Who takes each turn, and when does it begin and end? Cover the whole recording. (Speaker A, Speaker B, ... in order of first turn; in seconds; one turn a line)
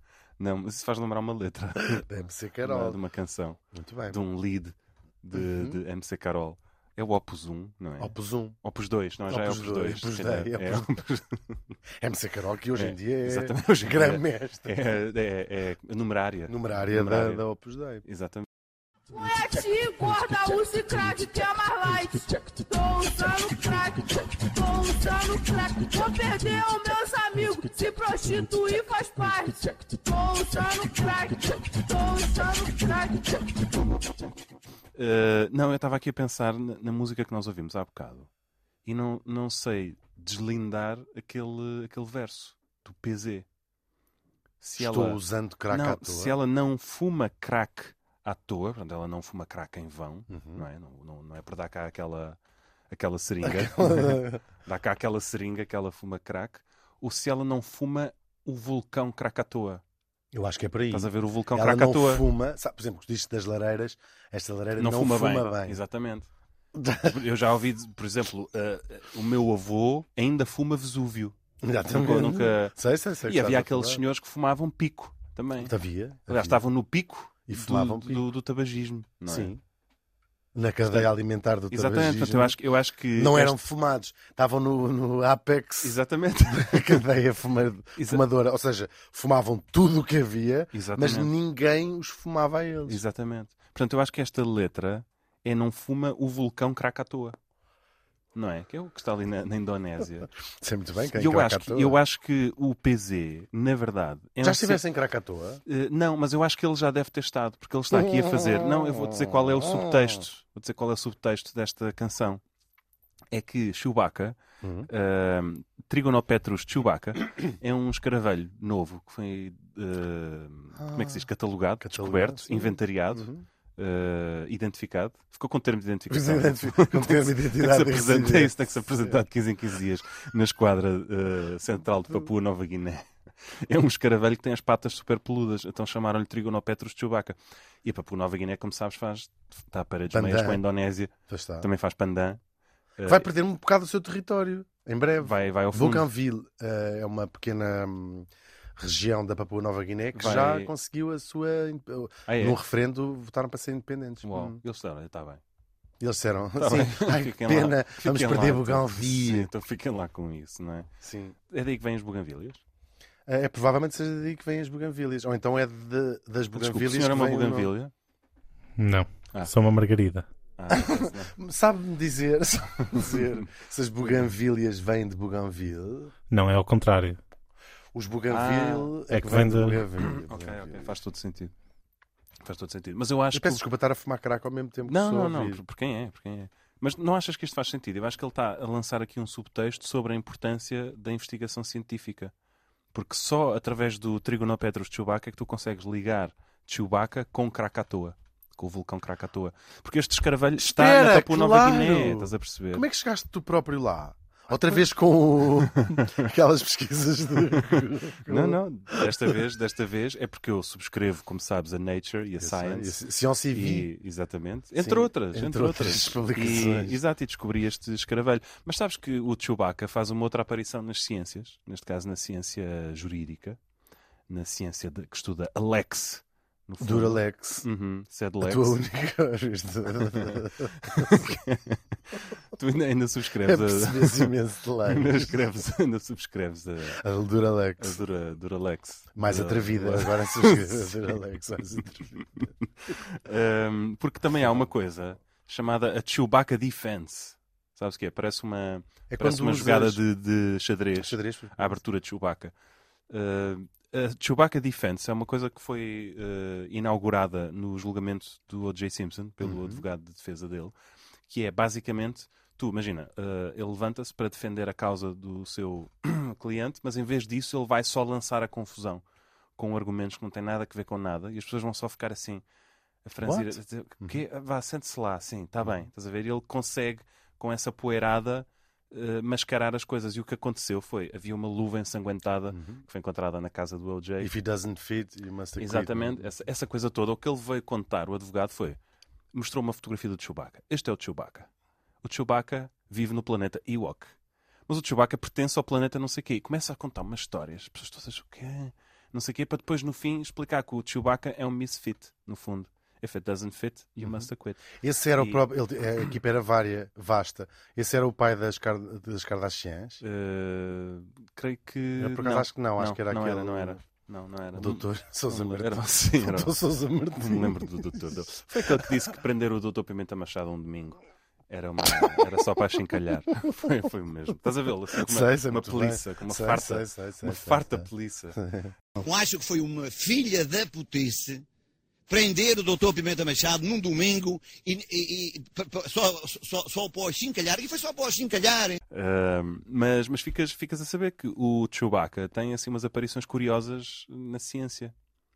Speaker A: 0.4-2.0
Speaker B: 1.8-3.0
Speaker A: 2.6-11.6
Speaker B: 3.7-4.2
Speaker B: 5.4-5.8
Speaker B: 8.0-8.6
Speaker B: 9.3-10.9
Speaker B: 12.0-14.8
Speaker A: 12.8-17.4
Speaker B: 16.5-18.0
Speaker A: 18.0-18.5
Speaker C: 19.1-33.9
Speaker A: 35.0-38.3
Speaker A: 38.9-43.5
Speaker A: 44.6-52.4
Speaker B: 44.8-46.4
Speaker B: 50.3-50.6
Speaker A: 52.9-59.8
Speaker B: 53.4-54.4
Speaker B: 60.3-65.8
Speaker A: 60.9-62.3
Speaker A: 64.8-66.3
Speaker B: 66.7-67.2
Speaker A: 67.0-75.7
Speaker B: 71.6-74.0
Speaker B: 75.6-76.6
Speaker A: 76.3-79.5
Speaker B: 77.5-78.2
Speaker B: 79.2-79.6
Speaker B: 80.5-82.6
Speaker A: 81.7-83.6
Speaker B: 83.2-93.0
Speaker A: 85.8-87.0
Speaker A: 88.0-88.2
Speaker A: 90.7-91.3
Speaker A: 92.9-97.4
Speaker A: 98.3-100.3
Speaker B: 100.6-102.0
Speaker A: 101.1-104.8
Speaker B: 104.4-105.6
Speaker A: 105.7-112.4
Speaker B: 107.9-110.2
Speaker A: 113.3-142.4
Speaker B: 114.6-114.9
Speaker B: 120.8-121.3
Speaker B: 121.8-123.5
Speaker B: 126.1-129.2
Speaker B: 140.1-140.6
Speaker B: 141.3-141.7
Speaker A: 143.0-143.3
Speaker B: 143.1-154.6
Speaker A: 145.2-146.1
Speaker A: 150.1-150.7
Speaker A: 152.3-152.6
Speaker A: 154.2-155.4
Speaker B: 156.0-159.5
Speaker A: 156.6-160.9
Speaker B: 161.0-161.4
Speaker A: 161.5-162.6
Speaker B: 163.3-167.7
Speaker A: 166.5-167.9
Speaker D: 168.8-170.3
Speaker A: 170.6-171.4
Speaker B: 170.7-176.1
Speaker A: 172.9-173.3
Speaker D: 176.3-177.2
Speaker B: 177.9-181.0
Speaker A: 178.3-178.9
Speaker D: 179.1-179.9
Speaker A: 180.2-181.5
Speaker A: 182.4-183.6
Speaker B: 183.3-185.6
Speaker A: 184.8-192.3
Speaker A: 192.9-202.8
Speaker B: 200.6-209.3
Speaker A: 205.8-206.2
Speaker A: 208.2-213.0
Speaker B: 212.4-213.9
Speaker A: 213.5-223.6
Speaker B: 214.8-217.0
Speaker A: 224.3-228.8
Speaker B: 226.8-227.7
Speaker B: 228.4-231.3
Speaker A: 230.1-234.3
Speaker B: 233.4-235.4
Speaker A: 234.9-237.0
Speaker B: 236.9-238.0
Speaker A: 237.8-241.2
Speaker B: 239.2-242.5
Speaker A: 242.4-252.5
Speaker B: 249.1-250.0
Speaker B: 251.0-251.8
Speaker A: 253.1-260.7
Speaker B: 259.4-259.8
Speaker A: 261.3-269.0
Speaker A: 269.6-272.4
Speaker A: 273.0-284.3
Speaker B: 273.2-274.2
Speaker B: 282.5-282.8
Speaker B: 284.2-286.3
Speaker A: 285.6-288.8
Speaker A: 289.3-291.5
Speaker A: 292.0-294.1
Speaker A: 294.7-305.4
Speaker B: 304.0-310.0
Speaker A: 310.0-316.6
Speaker B: 312.0-313.8
Speaker B: 314.6-317.8
Speaker A: 317.2-328.4
Speaker B: 318.6-318.9
Speaker B: 324.9-328.7
Speaker E: 329.0-331.4
Speaker E: 332.1-338.8
Speaker A: 338.9-344.9